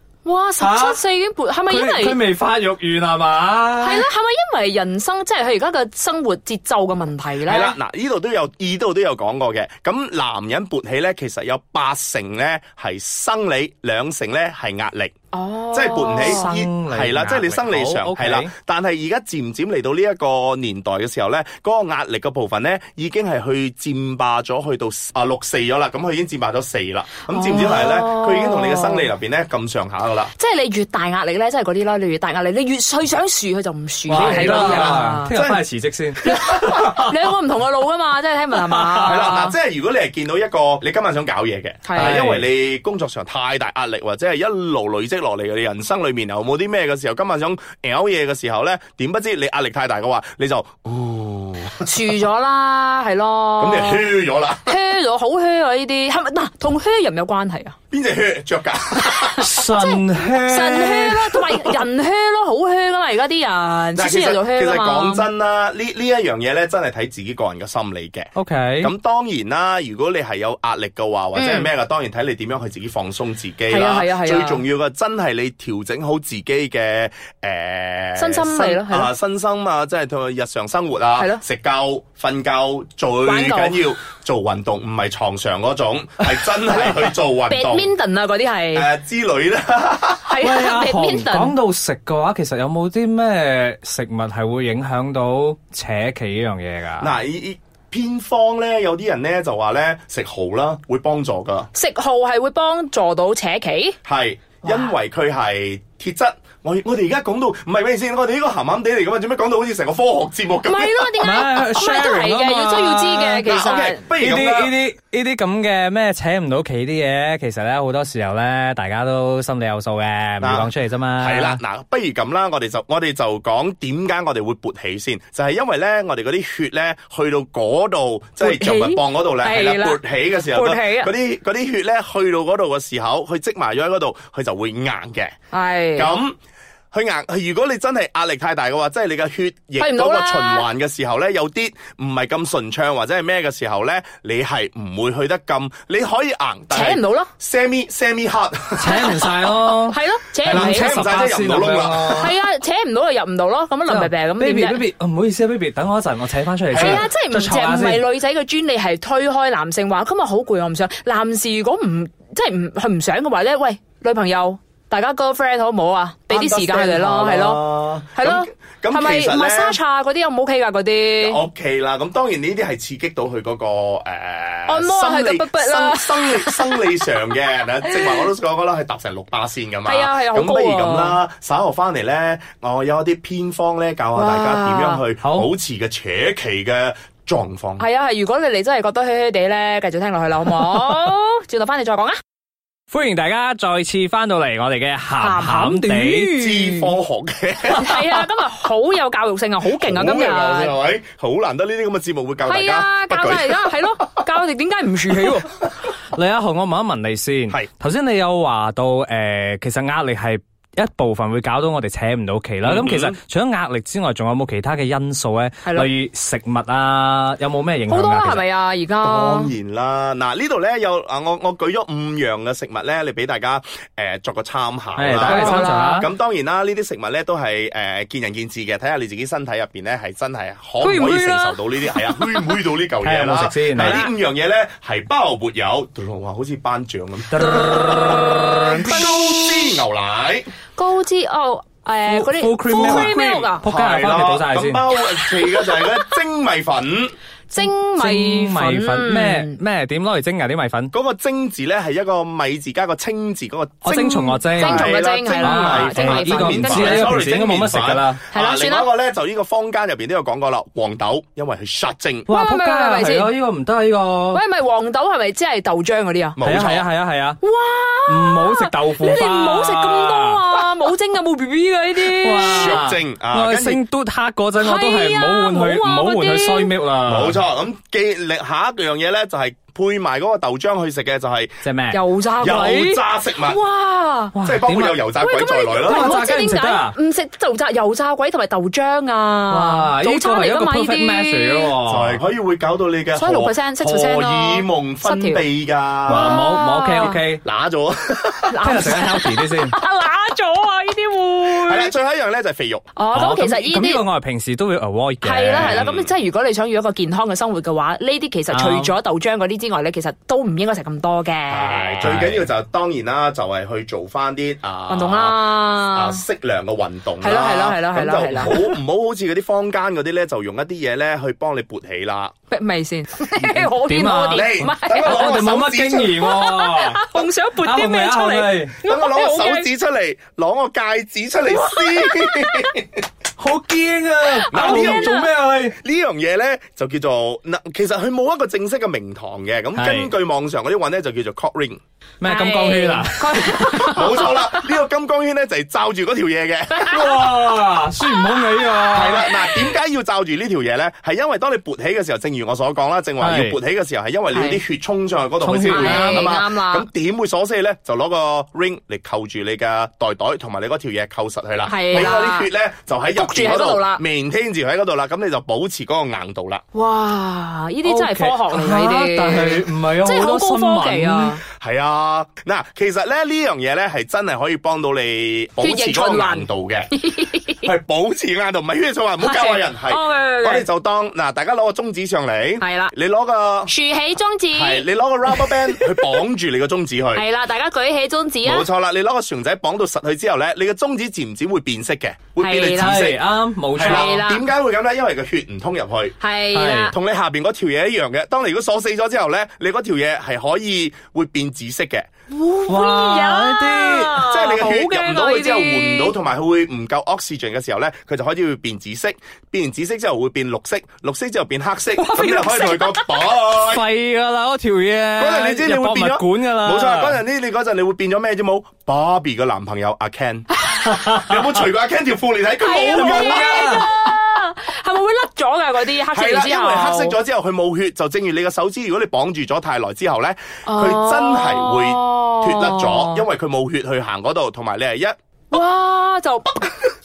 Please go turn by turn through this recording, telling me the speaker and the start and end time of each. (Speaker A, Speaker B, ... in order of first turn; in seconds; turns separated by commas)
Speaker A: 0.2-2.2, Speaker B: 0.6-1.0, Speaker B: 1.7-4.1, Speaker A: 3.8-7.8, Speaker C: 7.4-15.1, Speaker A: 15.3-16.5, Speaker C: 15.7-30.3, Speaker B: 16.2-18.5, Speaker A: 27.3-29.1, Speaker A: 30.4-35.3, Speaker C: 34.1-35.6, Speaker B: 34.1-36.2, Speaker C: 36.2-37.2, Speaker A: 36.2-39.6, Speaker B: 38.6-39.2, Speaker C: 39.0-51.9, Speaker A: 41.9-42.2, Speaker B: 42.0-42.5, Speaker A: 51.8-54.1, Speaker C: 53.6-54.7, Speaker A: 54.6-57.8, Speaker C: 57.9-59.5, Speaker A: 59.0-65.3, Speaker B: 59.4-61.5, Speaker C: 64.0-87.9, Speaker B: 68.3-68.9, Speaker A: 71.3-71.7, Speaker A: 73.7-74.6, Speaker A: 78.2-79.1, Speaker A: 83.2-83.8, Speaker A: 87.5-88.9, Speaker C: 88.7-90.4, Speaker A: 90.3-91.5, Speaker B: 90.4-97.1, Speaker C: 97.0-101.7, Speaker A: 101.7-104.0, Speaker C: 104.0-111.4, Speaker A: 110.6-114.1, Speaker B: 111.2-113.4, Speaker C: 113.5-114.8, Speaker B: 114.2-121.6, Speaker C: 120.4-135.3, Speaker A: 128.4-131.1, Speaker A: 135.5-136.1, Speaker C: 136.0-136.4, Speaker C: 136.9-149.3, Speaker A: 139.8-140.7, Speaker A: 146.7-147.3, Speaker B: 148.8-152.3, Speaker A: 149.9-151.0, Speaker C: 150.4-152.3, Speaker A: 152.1-154.8, Speaker B: 153.9-158.0, Speaker C: 156.7-157.1, Speaker A: 156.7-171.4, Speaker C: 166.3-169.8, Speaker C: 171.2-187.8, Speaker A: 174.7-177.0, Speaker A: 177.6-178.2, Speaker A: 179.8-181.2, Speaker A: 184.2-185.0, Speaker B: 185.2-185.5, Speaker A: 187.8-192.2, Speaker B: 192.9-196.3, Speaker A: 195.2-196.9, Speaker C: 196.4-198.2, Speaker A: 197.7-200.8, Speaker C: 199.7-203.8, Speaker A: 202.4-205.6, Speaker B: 206.1-218.4, Speaker C: 212.6-213.2, Speaker A: 215.6-215.9, Speaker A: 217.9-219.5, Speaker C: 219.0-240.5, Speaker B: 225.0-226.1, Speaker A: 225.2-226.0, Speaker A: 230.8-232.6, Speaker B: 233.0-234.0, Speaker A: 233.8-234.1, Speaker B: 237.3-238.2, Speaker A: 237.5-239.8, Speaker A: 240.8-243.7, Speaker B: 242.1-244.8, Speaker C: 242.7-247.1, Speaker A: 245.1-246.2, Speaker A: 247.5-249.6, Speaker B: 248.0-250.9, Speaker C: 250.9-262.3, Speaker B: 253.8-258.2, Speaker A: 253.9-257.1, Speaker A: 258.3-258.9, Speaker B: 262.3-264.4, Speaker A: 262.3-263.3, Speaker A: 264.3-266.4, Speaker C: 266.4-266.9, Speaker B: 266.4-267.4, Speaker A: 267.4-272.8, Speaker B: 268.1-270.4, Speaker B: 272.0-277.4, Speaker C: 272.4-273.8, Speaker A: 274.6-276.7, Speaker C: 277.1-281.6, Speaker B: 281.6-282.0, Speaker A: 281.9-284.4, Speaker C: 282.4-283.6, Speaker B: 284.4-285.0, Speaker C: 284.4-286.3, Speaker A: 285.2-291.8, Speaker B: 285.9-286.9, Speaker B: 289.5-292.2, Speaker C: 291.9-296.5, Speaker A: 293.1-295.4, Speaker B: 296.1-297.4, Speaker A: 296.1-297.2, Speaker C: 297.4-298.8, Speaker A: 298.5-301.9, Speaker B: 298.6-299.8, Speaker C: 301.4-302.9, Speaker A: 303.0-304.1, Speaker B: 303.1-305.8, Speaker A: 305.2-312.1, Speaker C: 305.5-306.1, Speaker B: 308.5-308.9, Speaker C: 311.5-322.3, Speaker B: 312.0-312.5, Speaker A: 314.9-316.2, Speaker A: 317.2-318.6, Speaker A: 322.5-325.4, Speaker C: 323.4-323.7, Speaker B: 323.9-328.8, Speaker C: 324.3-326.2, Speaker A: 326.0-329.7, Speaker C: 328.8-333.0, Speaker A: 331.5-332.8, Speaker B: 333.4-335.8, Speaker A: 334.5-335.2, Speaker C: 334.5-335.2, Speaker C: 335.8-341.8, Speaker B: 339.8-340.1, Speaker B: 342.2-344.1, Speaker A: 342.2-344.7, Speaker C: 343.9-347.1, Speaker A: 346.7-347.3, Speaker B: 346.9-349.5, Speaker A: 348.0-349.3, Speaker C: 348.9-366.6, Speaker B: 353.2-353.6, Speaker A: 354.3-354.6, Speaker B: 355.4-356.3, Speaker A: 355.7-356.9, Speaker A: 361.6-362.5, Speaker A: 363.2-364.0, Speaker A: 366.7-371.4, Speaker B: 367.9-371.4, Speaker C: 371.5-377.0, Speaker A: 375.6-377.7, Speaker C: 377.6-383.7, Speaker A: 379.2-380.7, Speaker A: 382.6-382.9, Speaker A: 383.7-386.1, Speaker C: 384.5-387.2, Speaker A: 387.1-388.7, Speaker C: 388.4-393.2, Speaker A: 392.4-393.0, Speaker B: 392.8-394.2, Speaker C: 393.8-396.2, Speaker A: 393.8-394.5, Speaker A: 396.2-396.9, Speaker B: 396.5-396.9, Speaker C: 396.9-402.1, Speaker A: 402.3-406.1, Speaker B: 402.7-404.3, Speaker C: 404.2-413.9, Speaker A: 412.0-413.3, Speaker B: 413.6-417.2, Speaker C: 415.2-423.9, Speaker A: 420.6-421.0, Speaker B: 421.0-421.4, Speaker A: 422.6-427.2, Speaker B: 422.9-423.9, Speaker C: 426.1-435.1, Speaker A: 430.7-433.3, Speaker A: 435.5-436.8